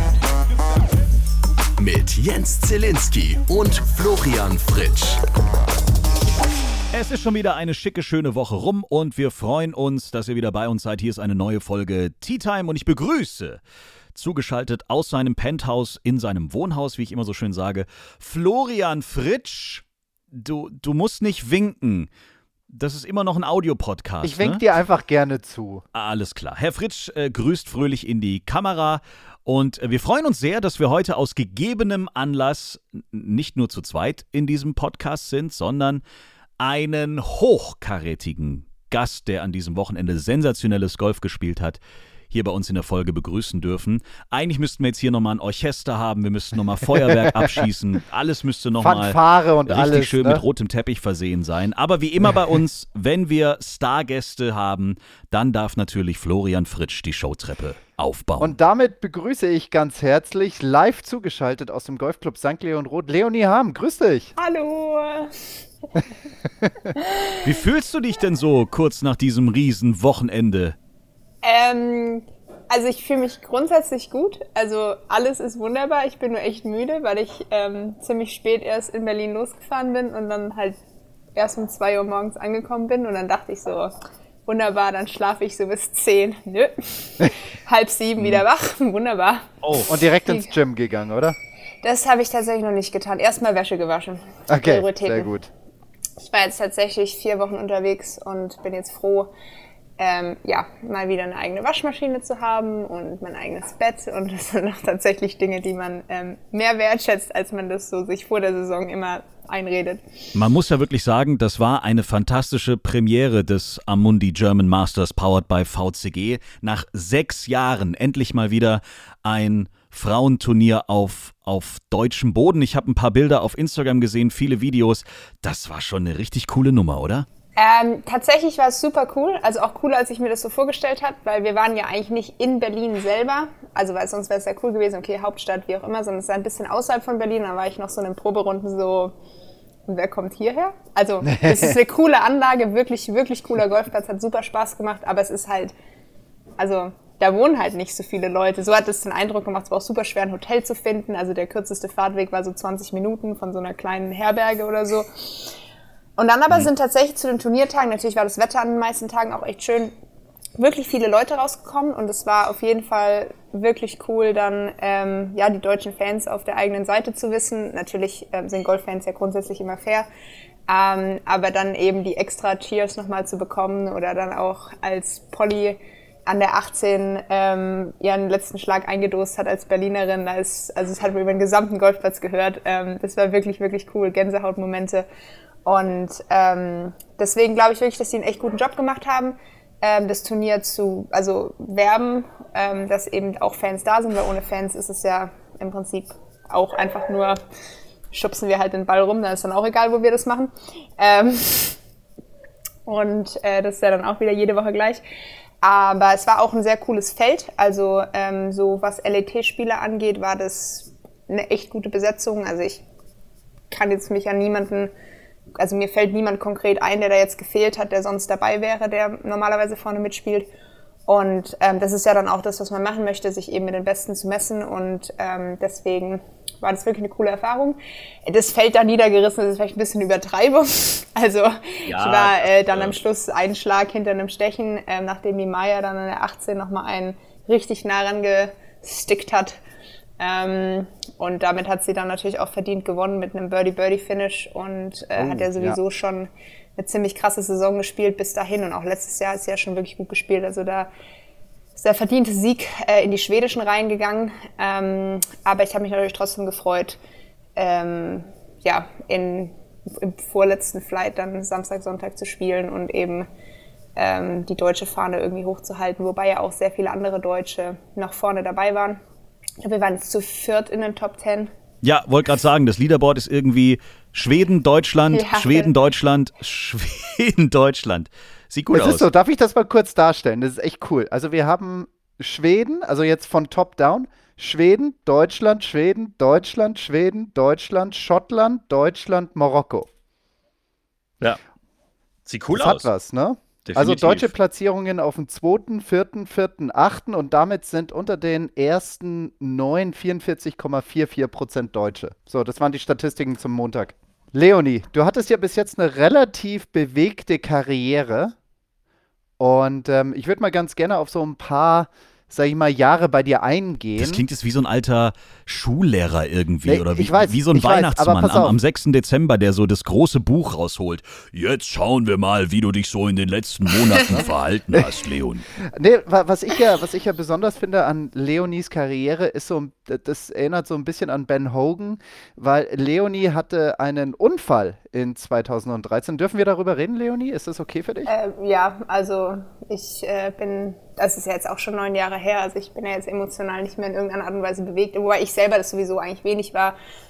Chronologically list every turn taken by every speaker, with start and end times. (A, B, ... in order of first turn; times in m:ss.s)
0:01.8-0:05.2 A
0:06.9-0:13.6 B
0:14.1-0:22.1 B
0:22.7-0:24.6 B
0:24.2-0:25.8 C
0:25.9-0:36.0 B
0:36.6-0:41.8 B
0:42.3-0:58.5 B
0:47.1-0:47.6 C
0:48.8-0:50.4 C
0:58.4-1:04.3 C
1:04.4-1:05.3 D
1:07.0-1:07.4 D
1:07.4-1:10.8 B
1:11.4-1:20.8 D
1:21.4-1:23.9 D
1:24.4-1:30.5 D
1:28.2-1:28.4 B
1:29.6-1:29.9 B
1:29.9-1:31.4 C
1:31.8-1:35.3 D
1:34.5-1:35.5 C
1:36.2-1:39.3 D
1:40.0-1:50.0 D
1:50.3-2:07.2 B
2:07.6-2:19.1 D
2:19.9-2:25.7 D
2:21.2-2:21.8 C
2:26.6-2:35.5 D
2:36.2-2:39.9 D
2:40.6-2:50.1 D
2:50.7-3:05.0 D
3:05.6-3:17.4 D
3:18.1-3:21.8 D
3:22.8-3:25.0 D
3:25.6-3:32.8 D
3:33.7-3:34.9 D
3:35.6-3:40.5 D
3:41.1-3:59.6 D
3:51.9-3:53.0 B
4:00.2-4:10.9 D
4:05.2-4:05.8 C
4:11.8-4:17.0 D
4:17.6-4:23.3 D
4:24.0-4:29.0 D
4:29.6-4:31.5 D
4:31.8-4:39.0 B
4:35.1-4:35.7 D
4:38.7-4:49.9 C
4:52.2-4:52.9 B
4:52.5-5:08.3 C
4:53.7-4:54.3 B
5:09.4-5:14.2 C
5:14.0-5:25.5 B
5:16.6-5:18.6 C
5:25.6-5:38.1 C
5:38.0-5:46.7 D